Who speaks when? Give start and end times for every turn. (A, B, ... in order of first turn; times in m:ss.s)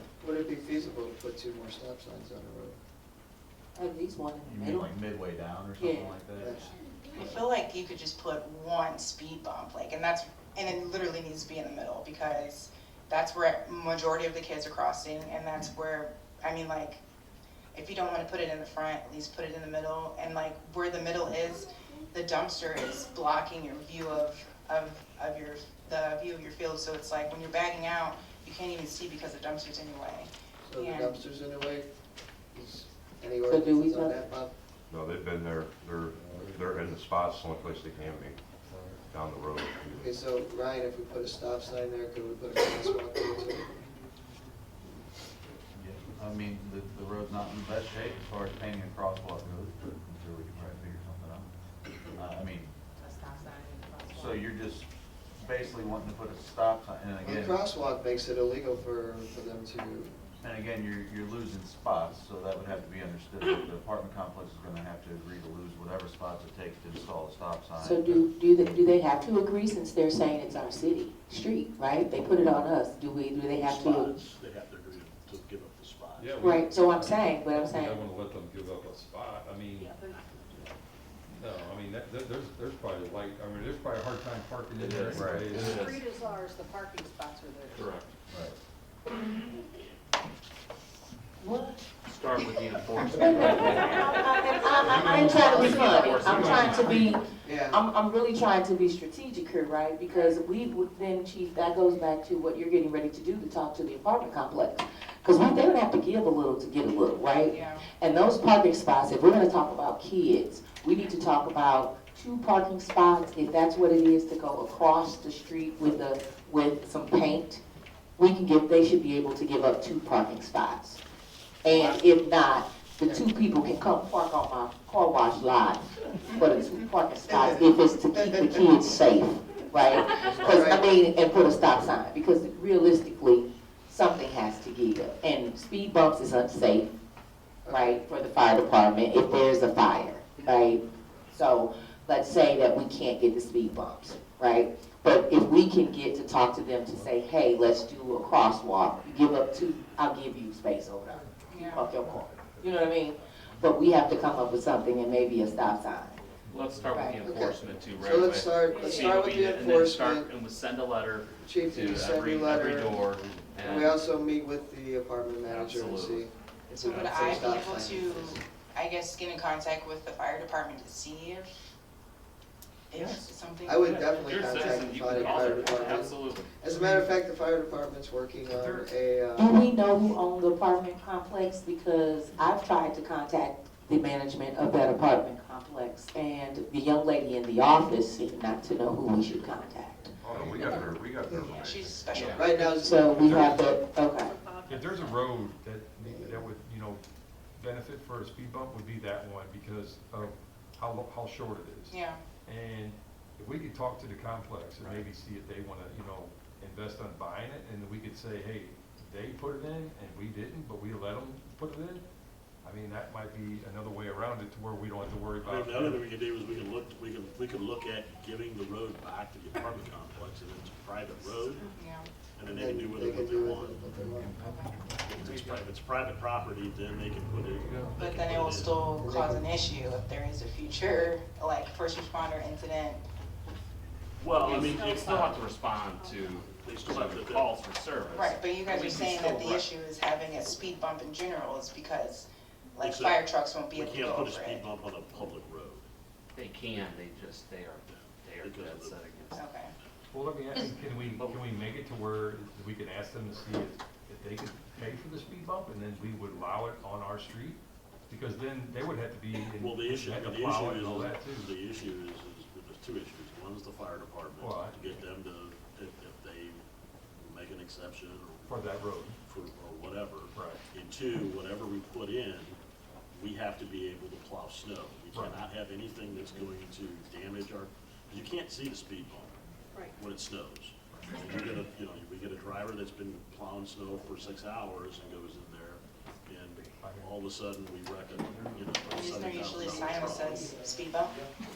0:00.2-0:02.8 A
0:03.8-0:04.9 B
0:04.4-0:07.4 C
0:05.8-0:06.2 B
0:06.4-0:06.7 A
0:07.1-0:17.0 D
0:17.7-0:31.2 D
0:30.6-0:31.9 A
0:32.5-0:34.5 A
0:33.4-0:34.2 B
0:34.9-0:38.4 E
0:39.0-0:40.1 E
0:40.0-0:43.7 A
0:45.7-0:51.5 C
0:52.1-0:52.7 C
0:53.0-0:54.2 F
0:54.1-0:57.6 C
0:57.2-1:00.2 A
1:00.4-1:08.2 C
1:07.8-1:14.1 B
1:13.6-1:16.3 G
1:16.2-1:19.9 H
1:16.4-1:18.0 B
1:19.8-1:20.3 F
1:21.3-1:25.8 H
1:24.7-1:26.0 I
1:25.1-1:25.5 C
1:25.4-1:27.9 F
1:27.7-1:28.1 I
1:28.3-1:28.6 C
1:31.4-1:31.8 B
1:32.0-1:34.2 I
1:32.4-1:57.6 B
1:33.3-1:35.4 F
1:34.8-1:35.4 H
1:35.4-1:37.1 I
1:35.6-1:36.5 A
1:36.2-1:37.0 H
1:37.4-1:37.8 A
1:47.5-1:47.9 D
1:58.2-2:01.0 B
2:01.6-2:16.9 B
2:01.7-2:02.2 I
2:07.3-2:08.8 A
2:10.2-2:10.9 A
2:17.6-2:18.0 A
2:17.7-2:20.8 B
2:21.3-2:36.2 B
2:31.5-2:31.8 D
2:36.5-2:44.0 I
2:36.5-2:37.1 H
2:37.2-2:40.3 A
2:38.7-2:39.1 F
2:41.4-2:43.0 A
2:43.6-2:46.3 A
2:45.4-2:48.4 I
2:46.8-2:51.5 D
2:46.8-2:48.4 A
2:52.9-2:54.5 D
2:53.0-2:53.2 I
2:53.6-2:59.5 A
2:53.8-2:56.5 I
2:56.8-2:57.0 H
2:58.5-2:58.9 H
2:59.4-3:10.9 B
3:10.3-3:12.2 E
3:11.5-3:12.8 D
3:12.1-3:12.5 I
3:12.3-3:13.0 A
3:12.8-3:14.3 B
3:14.2-3:15.2 F
3:14.7-3:17.0 H
3:16.0-3:16.4 A
3:17.6-3:32.0 H
3:21.9-3:22.2 D
3:32.6-3:36.0 H
3:35.4-3:41.7 G
3:41.7-3:42.1 D
3:42.3-3:43.8 G
3:42.4-3:44.4 A
3:44.4-3:44.8 D
3:45.0-3:48.8 G
3:45.2-3:45.6 A
3:48.0-3:53.0 D
3:49.0-3:49.4 A
3:54.2-3:55.4 G
3:54.3-3:59.6 I
3:54.4-3:56.7 F
3:56.6-3:57.6 G
3:58.1-4:04.7 D
4:02.8-4:05.9 G
4:06.3-4:09.4 I
4:07.8-4:09.0 G
4:09.4-4:09.7 D
4:10.1-4:21.5 H
4:11.1-4:11.4 I
4:19.5-4:26.6 G
4:24.4-4:24.8 H
4:27.2-4:28.7 G
4:28.5-4:29.2 H
4:29.2-4:32.6 G
4:30.3-4:30.6 H
4:33.1-4:39.4 G
4:35.1-4:35.4 H
4:39.9-4:50.4 G
4:46.8-4:47.1 H
4:48.9-4:51.1 D